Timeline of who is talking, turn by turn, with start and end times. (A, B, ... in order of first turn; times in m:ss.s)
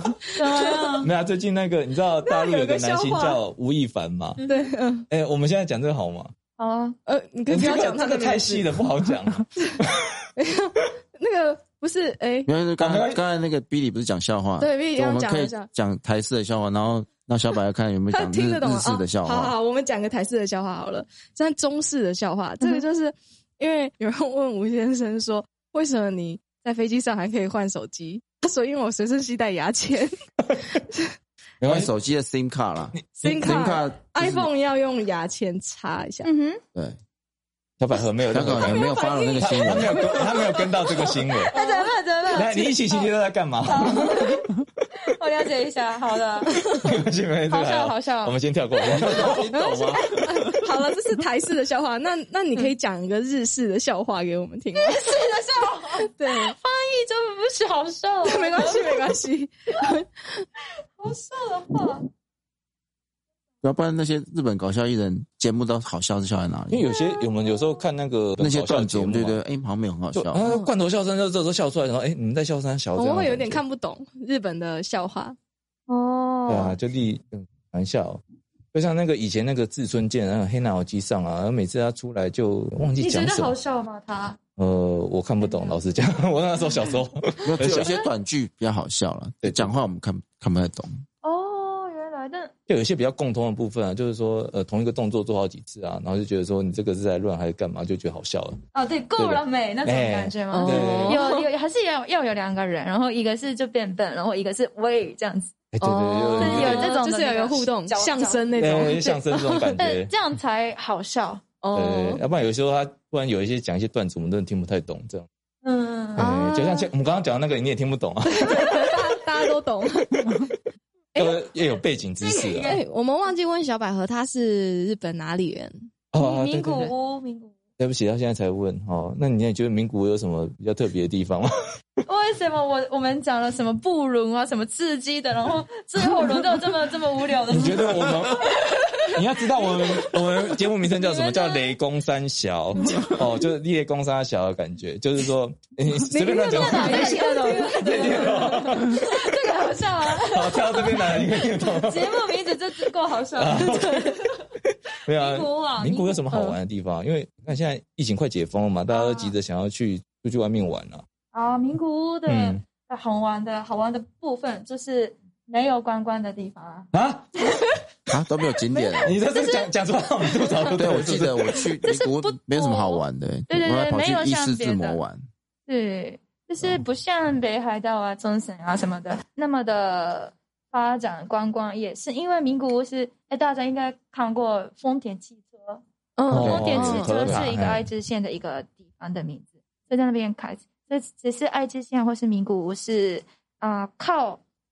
0:00.3-0:01.1 A
0:00.6-0:04.4 B
0:02.2-0:03.4 C
0:04.4-0:04.7 A
0:04.4-0:05.1 C
0:05.1-0:06.3 B
0:06.6-0:07.0 A
0:07.1-0:09.8 C
0:07.5-0:10.1 B
0:10.4-0:12.5 C
0:12.5-0:19.6 D
0:12.8-0:13.2 B
0:14.6-0:15.7 C
0:18.1-0:30.2 C
0:30.7-0:31.1 C
0:31.6-0:31.9 B
0:31.6-0:34.5 D
0:33.2-0:36.3 C
0:36.2-0:36.6 A
0:37.8-0:41.6 B
0:38.3-0:40.1 D
0:38.6-0:43.1 A
0:41.5-0:41.9 C
0:42.3-0:44.6 B
0:43.6-0:46.9 A
0:46.8-0:49.6 B
0:47.5-0:49.3 A
0:48.9-0:50.0 D
0:49.5-0:55.1 C
0:54.7-0:59.1 A
0:56.1-0:56.5 C
0:58.2-1:00.5 C
1:01.0-1:02.0 A
1:03.6-1:06.9 D
1:06.7-1:09.4 B
1:06.8-1:07.8 A
1:08.4-1:10.5 D
1:10.2-1:13.6 B
1:13.0-1:15.4 C
1:15.9-1:16.8 A
1:16.5-1:18.2 B
1:18.7-1:23.6 B
1:23.0-1:24.4 A
1:24.6-1:28.0 B
1:25.4-1:25.8 A
1:27.4-1:30.9 D
1:29.4-1:29.7 B
1:31.2-1:32.5 A
1:32.7-1:38.6 B
1:38.7-1:45.6 A
1:39.2-1:41.2 B
1:40.5-1:41.5 C
1:45.7-1:47.0 B
1:45.8-1:49.7 C
1:46.4-1:48.6 A
1:48.6-1:50.2 B
1:49.8-1:51.5 A
1:51.6-1:52.2 C
1:51.7-1:55.3 B
1:55.6-1:56.3 A
1:56.2-1:58.5 B
1:56.2-1:56.8 C
1:58.3-2:00.3 C
2:01.2-2:01.4 C
2:01.2-2:02.8 B
2:02.2-2:02.8 A
2:02.3-2:05.9 C
2:06.1-2:06.9 B
2:06.2-2:07.5 A
2:07.8-2:11.5 B
2:12.1-2:21.8 A
2:17.5-2:29.1 B
2:22.8-2:23.1 A
2:26.0-2:28.8 C
2:26.5-2:34.4 A
2:30.2-2:32.2 B
2:33.3-2:34.2 B
2:35.1-2:41.0 B
2:35.1-2:36.3 A
2:36.3-2:36.6 C
2:38.9-2:39.4 A
2:41.3-2:46.9 A
2:42.3-2:42.6 B
2:46.9-2:47.5 B
2:48.1-2:49.2 D
2:48.7-2:49.0 C
2:49.0-2:51.7 B
2:49.1-2:49.7 A
2:50.7-2:55.2 D
2:51.8-2:55.0 A
2:55.7-3:05.8 A
3:06.2-3:07.4 C
3:06.3-3:07.8 B
3:06.3-3:07.4 D
3:06.3-3:14.4 A